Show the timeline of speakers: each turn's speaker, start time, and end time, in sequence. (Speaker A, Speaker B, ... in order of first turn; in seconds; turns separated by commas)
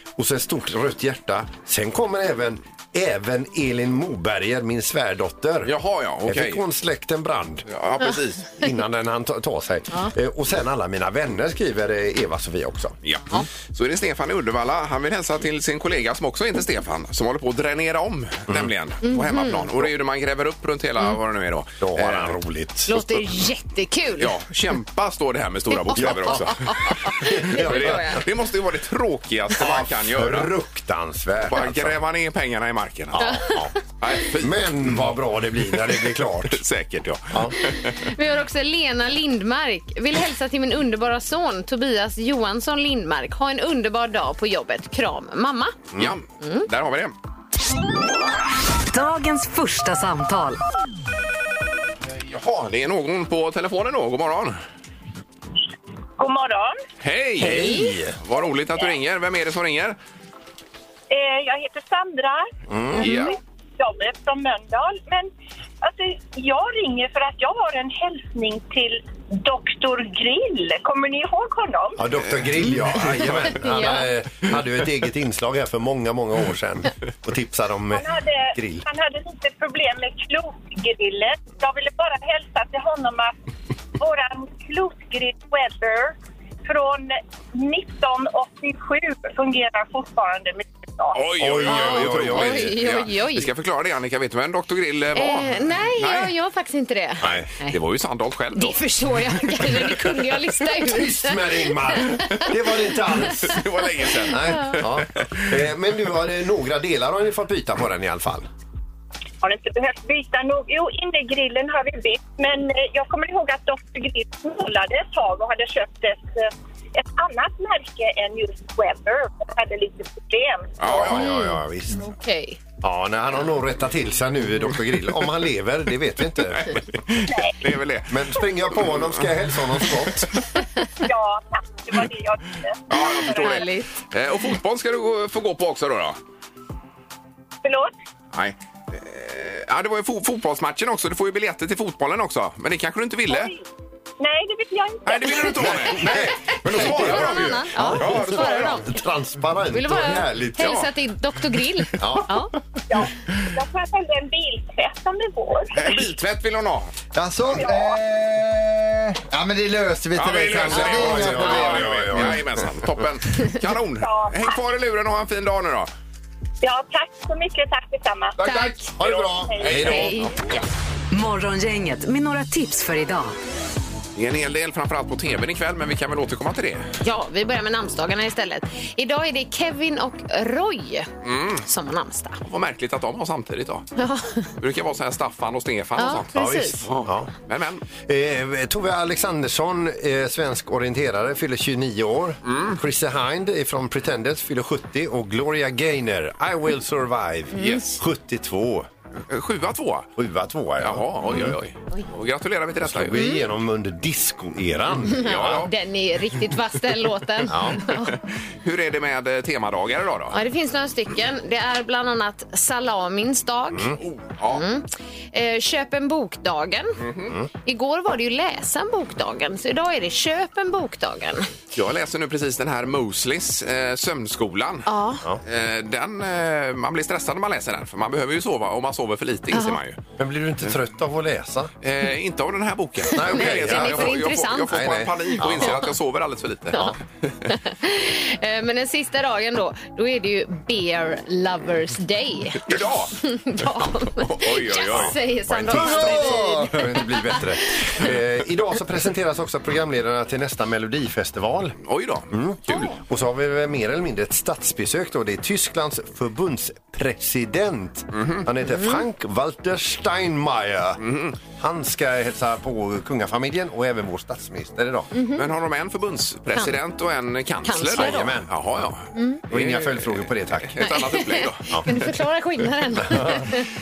Speaker A: 0.1-5.7, Speaker B: 5.6-6.6, Speaker A: 6.2-7.6, Speaker B: 7.7-8.6, Speaker A: 8.5-12.9, Speaker B: 13.0-22.4, Speaker C: 19.0-19.6, Speaker A: 21.8-23.3, Speaker C: 22.9-24.3, Speaker B: 24.2-30.5, Speaker C: 25.7-28.2, Speaker A: 25.9-28.2, Speaker A: 29.6-32.0, Speaker B: 31.4-33.3, Speaker A: 33.1-36.6, Speaker C: 33.2-33.7, Speaker B: 34.0-35.2, Speaker B: 35.7-38.1, Speaker C: 37.7-45.8, Speaker B: 46.0-47.1, Speaker C: 46.4-46.6, Speaker D: 48.9-50.6, Speaker B: 52.1-54.6, Speaker E: 56.2-56.8, Speaker B: 57.0-60.0, Speaker A: 57.4-58.2, Speaker C: 57.4-57.9, Speaker E: 61.1-72.0, Speaker A: 62.7-63.1, Speaker B: 63.0-63.4, Speaker A: 72.0-78.8, Speaker B: 72.6-73.6, Speaker C: 73.6-74.0, Speaker E: 77.9-83.3, Speaker E: 84.0-91.4, Speaker B: 91.1-96.3, Speaker A: 91.4-92.8, Speaker C: 91.7-93.5, Speaker C: 95.2-97.8, Speaker A: 97.2-97.5, Speaker B: 97.2-98.8, Speaker C: 98.5-102.3, Speaker B: 99.5-99.9, Speaker A: 100.8-103.6, Speaker B: 103.3-105.5, Speaker A: 104.3-108.5, Speaker C: 104.5-104.8, Speaker E: 109.4-120.9, Speaker B: 120.8-121.3, Speaker A: 120.8-122.1, Speaker C: 121.0-122.6, Speaker A: 122.8-126.7, Speaker B: 126.5-130.2, Speaker E: 127.2-127.6, Speaker A: 128.1-130.3, Speaker E: 131.0-133.6, Speaker B: 132.9-136.2, Speaker C: 133.3-133.9, Speaker E: 137.6-137.9, Speaker B: 138.3-143.5, Speaker E: 143.3-143.5, Speaker E: 144.2-146.0, Speaker B: 145.1-148.8, Speaker A: 145.6-150.8, Speaker C: 146.8-148.9, Speaker C: 149.7-152.5, Speaker B: 150.6-150.9, Speaker A: 152.0-152.3, Speaker E: 152.9-156.1, Speaker B: 155.7-156.9, Speaker F: 157.1-162.4, Speaker E: 157.6-158.0, Speaker B: 160.1-165.9, Speaker A: 160.8-162.6, Speaker E: 164.0-164.6, Speaker E: 166.6-170.1, Speaker B: 168.4-168.8, Speaker C: 168.4-168.9, Speaker A: 169.0-170.2, Speaker B: 169.6-170.6, Speaker C: 169.8-170.3, Speaker D: 171.1-173.3, Speaker B: 174.1-176.8, Speaker C: 177.0-181.1, Speaker B: 181.2-181.6, Speaker C: 181.6-182.4, Speaker B: 182.4-183.9, Speaker C: 184.0-184.5, Speaker B: 184.6-187.8, Speaker C: 186.0-186.8, Speaker A: 186.3-187.3, Speaker A: 188.0-198.9, Speaker B: 192.4-192.8, Speaker C: 197.5-197.8, Speaker B: 197.5-198.0, Speaker B: 199.3-200.1, Speaker A: 200.2-201.6, Speaker B: 200.8-203.2, Speaker A: 202.8-205.7, Speaker C: 205.1-208.1, Speaker B: 205.1-205.7, Speaker A: 207.5-207.8, Speaker B: 207.9-210.4, Speaker C: 210.3-213.9, Speaker B: 214.0-214.6, Speaker C: 214.5-217.0, Speaker B: 217.0-217.3, Speaker C: 217.6-221.5, Speaker B: 221.7-230.0, Speaker C: 224.8-225.2, Speaker C: 229.5-229.8, Speaker A: 230.2-231.7, Speaker B: 231.8-236.9, Speaker A: 233.1-235.8, Speaker C: 233.2-235.7, Speaker C: 237.5-247.4, Speaker B: 242.7-243.1, Speaker B: 243.9-245.2, Speaker A: 244.9-251.8, Speaker F: 245.7-246.8, Speaker B: 251.8-252.9, Speaker A: 252.3-265.1, Speaker B: 258.1-258.5, Speaker B: 261.0-261.4, Speaker C: 265.1-265.4, Speaker B: 265.3-271.9, Speaker C: 267.6-268.3, Speaker A: 267.9-268.5, Speaker C: 269.1-269.4, Speaker A: 269.5-270.9, Speaker C: 270.8-273.6, Speaker A: 273.0-273.4